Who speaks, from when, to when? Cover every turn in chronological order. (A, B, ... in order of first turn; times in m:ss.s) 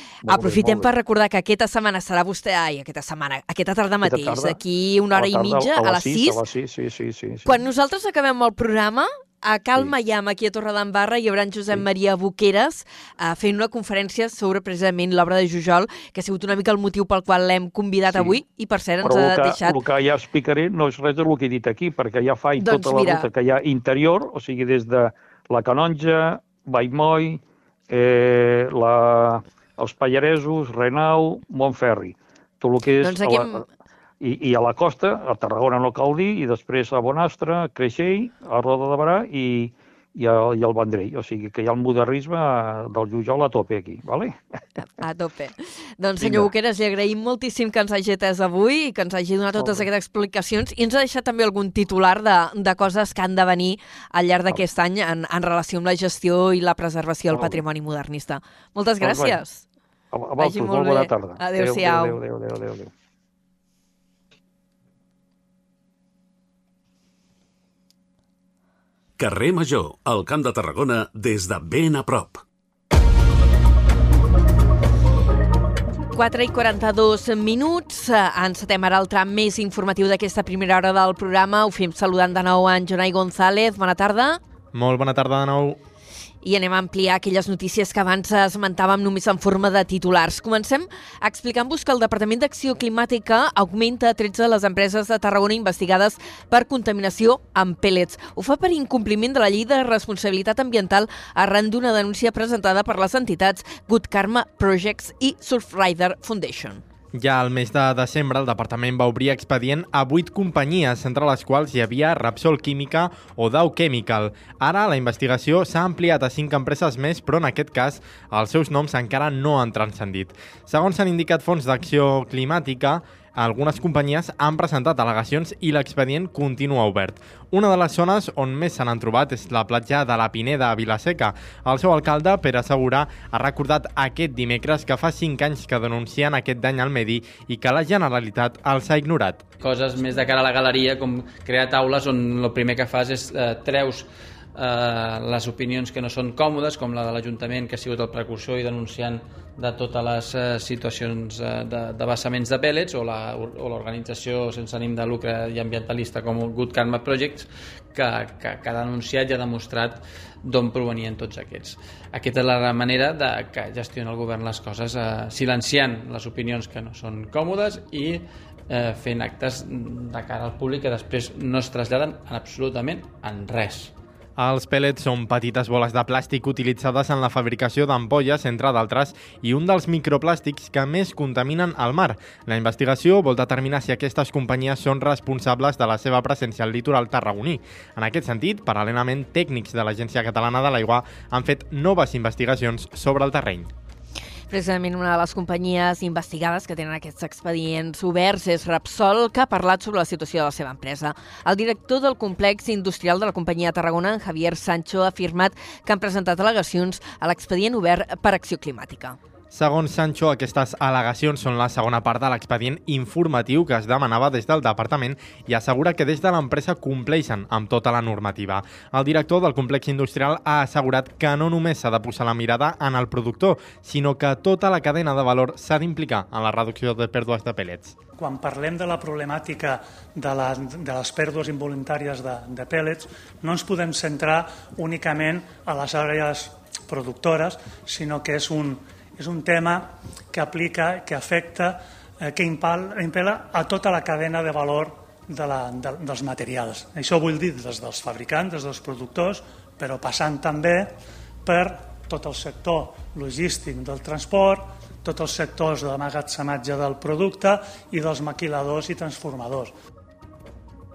0:00.2-0:00.9 A
0:00.2-0:06.4 B
0:04.0-0:04.6 A
0:05.1-0:07.6 A
0:07.4-0:19.8 B
0:18.1-0:18.4 A
0:19.0-0:33.6 A
0:22.6-0:23.3 B
0:33.0-0:33.6 B
0:34.2-0:44.4 A
0:45.0-0:59.6 B
0:46.2-0:46.5 A
0:49.6-0:49.8 A
0:57.3-0:57.6 A
0:59.0-0:59.4 A
1:00.1-1:02.9 A
1:00.4-1:02.2 B
1:09.2-1:12.4 C
1:16.1-1:24.4 B
1:24.7-1:25.8 D
1:26.4-1:46.8 B
1:47.1-2:19.4 D
2:19.6-2:53.9 E
2:54.4-3:13.7 D
3:14.5-3:29.2 B
3:29.5-3:47.9 D
3:48.2-4:19.7 F